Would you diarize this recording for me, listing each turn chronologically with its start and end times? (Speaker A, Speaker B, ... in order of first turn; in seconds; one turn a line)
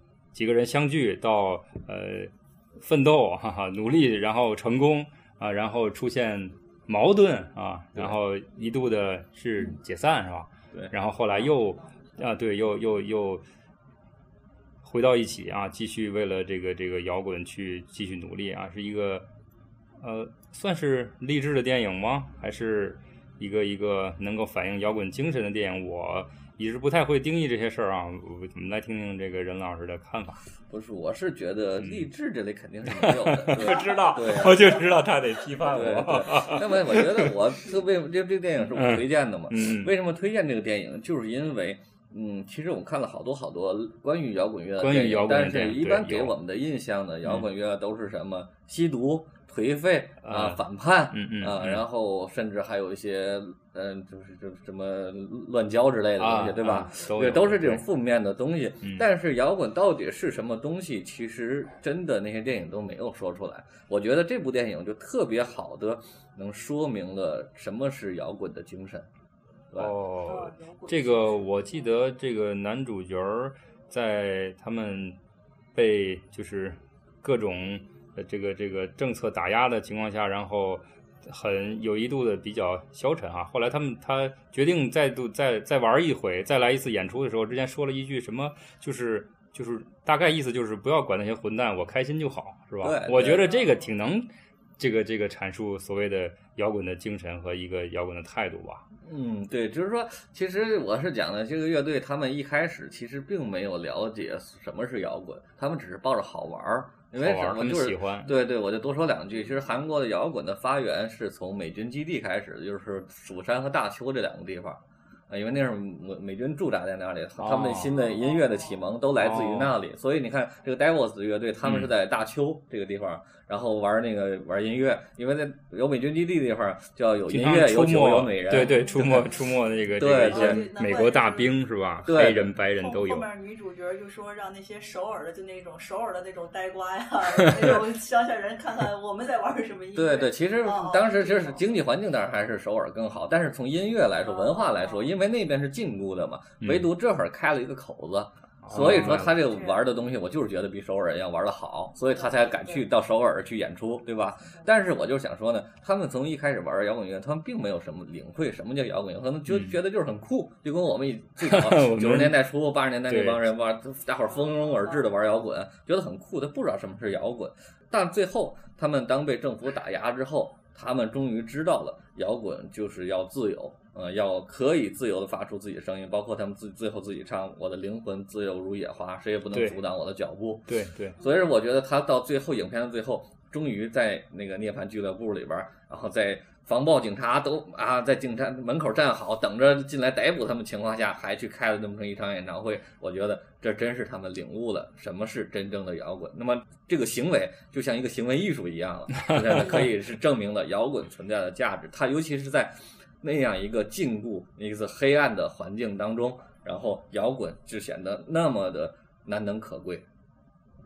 Speaker A: 0.3-13.4
Speaker B: 11.4-12.0
Speaker A: 14.8-19.2
Speaker A: 20.0-30.4
Speaker C: 30.7-34.8
Speaker A: 31.8-32.1
Speaker A: 32.9-37.4
Speaker C: 35.7-69.1
Speaker A: 38.7-39.9
Speaker A: 44.8-46.3
Speaker A: 50.2-51.8
Speaker A: 56.2-57.8
Speaker A: 69.8-75.2
Speaker B: 70.2-72.0
Speaker A: 75.7-94.3
Speaker C: 92.8-93.5
Speaker B: 93.5-93.8
Speaker A: 94.8-98.8
Speaker C: 99.0-129.3
Speaker A: 107.1-108.3
Speaker A: 117.4-118.0
Speaker B: 118.0-118.8
Speaker A: 119.2-119.8
Speaker A: 121.6-121.9
Speaker A: 127.3-133.3
Speaker B: 128.5-131.6
Speaker C: 130.0-130.7
Speaker C: 132.0-132.5
Speaker B: 132.7-141.7
Speaker C: 139.9-210.0
Speaker B: 144.2-145.1
Speaker A: 146.6-146.9
Speaker A: 148.6-149.3
Speaker B: 149.2-149.8
Speaker B: 152.1-152.8
Speaker A: 159.5-159.8
Speaker A: 161.4-162.4
Speaker A: 163.1-163.4
Speaker B: 164.6-165.0
Speaker A: 179.5-179.8
Speaker A: 180.7-181.2
Speaker B: 181.2-181.5
Speaker A: 199.2-199.7